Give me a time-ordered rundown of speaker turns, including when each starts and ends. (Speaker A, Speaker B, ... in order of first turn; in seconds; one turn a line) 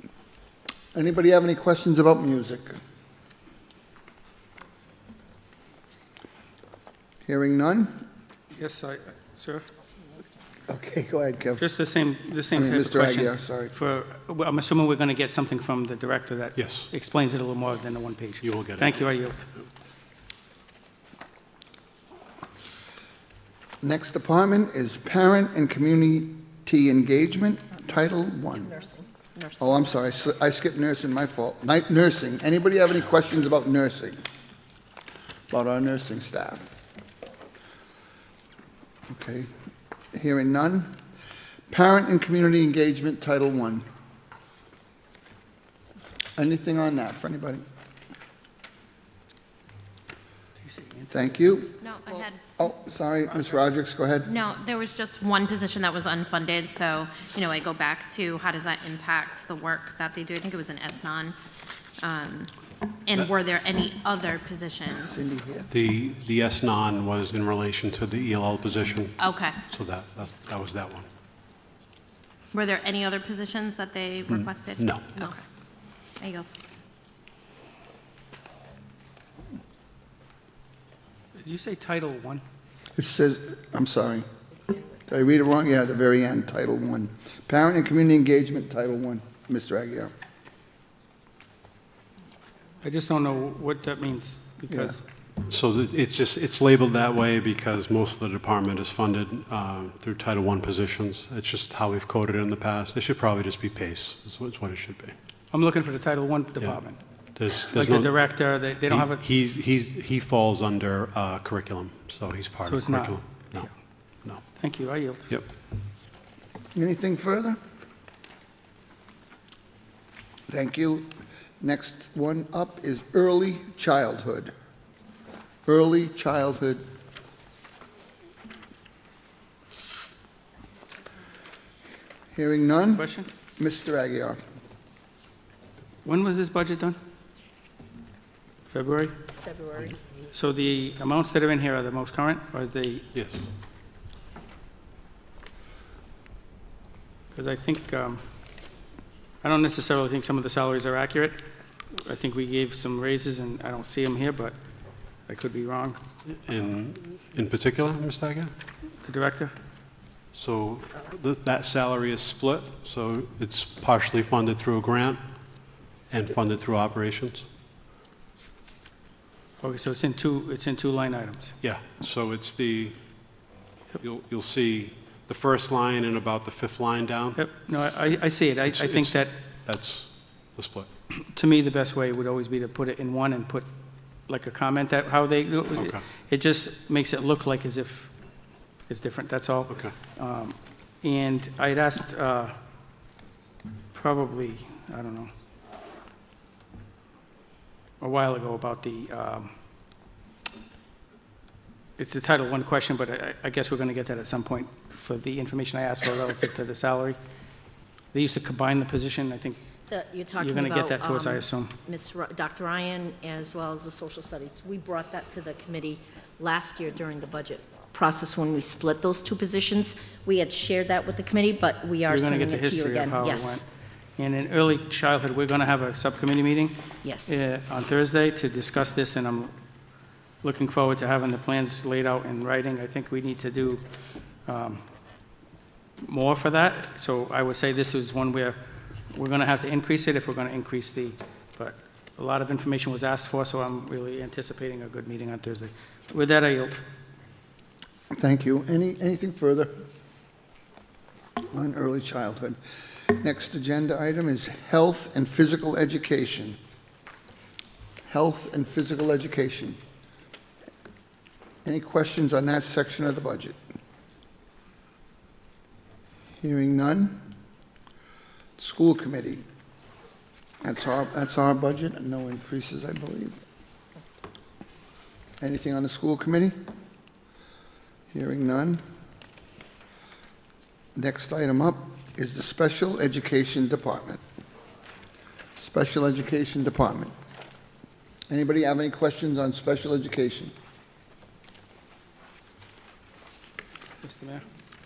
Speaker A: 0.9-2.7
Speaker A: 7.2-7.9
Speaker B: 8.5-9.6
Speaker A: 10.7-11.6
Speaker B: 11.6-19.4
Speaker A: 12.5-13.7
Speaker C: 16.6-16.9
Speaker C: 18.4-19.4
Speaker A: 23.8-28.8
Speaker D: 28.8-29.4
Speaker A: 29.6-34.2
Speaker A: 35.5-36.7
Speaker A: 39.1-39.5
Speaker A: 40.1-40.9
Speaker A: 41.7-43.8
Speaker A: 46.4-47.6
Speaker B: 50.6-51.4
Speaker A: 51.1-51.8
Speaker E: 51.8-52.5
Speaker A: 52.6-54.3
Speaker E: 54.2-61.4
Speaker E: 62.0-62.5
Speaker E: 63.0-65.2
Speaker A: 65.0-65.8
Speaker C: 65.7-69.2
Speaker E: 69.2-69.6
Speaker C: 69.7-71.1
Speaker E: 72.5-75.4
Speaker C: 74.3-75.1
Speaker E: 76.2-76.6
Speaker B: 81.4-82.4
Speaker A: 83.0-84.2
Speaker A: 85.1-90.1
Speaker B: 92.8-95.0
Speaker A: 94.7-95.0
Speaker C: 95.5-105.1
Speaker B: 105.5-107.0
Speaker C: 106.5-106.8
Speaker C: 107.3-113.7
Speaker B: 107.8-109.2
Speaker B: 112.7-113.7
Speaker B: 114.5-115.3
Speaker A: 116.7-117.6
Speaker A: 120.5-121.1
Speaker A: 121.6-124.5
Speaker A: 125.7-126.8
Speaker A: 132.3-134.4
Speaker B: 133.0-133.3
Speaker B: 136.0-137.0
Speaker B: 138.7-139.1
Speaker D: 139.5-139.9
Speaker B: 140.3-143.0
Speaker C: 143.1-143.4
Speaker B: 147.3-148.2
Speaker B: 149.4-151.4
Speaker B: 151.9-154.6
Speaker B: 155.3-156.0
Speaker C: 156.3-158.5
Speaker B: 159.0-159.5
Speaker C: 160.3-165.2
Speaker C: 166.1-167.4
Speaker B: 169.6-171.5
Speaker C: 171.6-173.0
Speaker C: 174.0-177.4
Speaker B: 177.3-179.3
Speaker C: 178.6-180.9
Speaker B: 181.2-183.7
Speaker B: 184.3-188.1
Speaker C: 185.7-186.1
Speaker B: 188.9-192.6
Speaker C: 189.7-190.0
Speaker B: 193.9-195.3
Speaker B: 198.0-199.5
Speaker B: 202.0-207.2
Speaker B: 208.1-209.6
Speaker D: 209.9-223.6
Speaker B: 210.4-211.7
Speaker B: 222.1-223.6
Speaker B: 224.2-229.5
Speaker D: 227.0-227.4
Speaker B: 230.4-233.8
Speaker B: 234.5-234.8
Speaker B: 236.0-238.6
Speaker B: 239.1-246.8
Speaker A: 248.1-249.7
Speaker A: 251.5-256.6
Speaker A: 258.1-259.8
Speaker A: 261.6-263.6
Speaker A: 266.4-267.2
Speaker A: 268.6-269.4
Speaker A: 270.6-273.4
Speaker A: 275.4-276.5
Speaker A: 278.1-278.8
Speaker A: 280.9-284.2
Speaker A: 285.6-287.1
Speaker A: 288.3-290.5
Speaker B: 294.0-294.4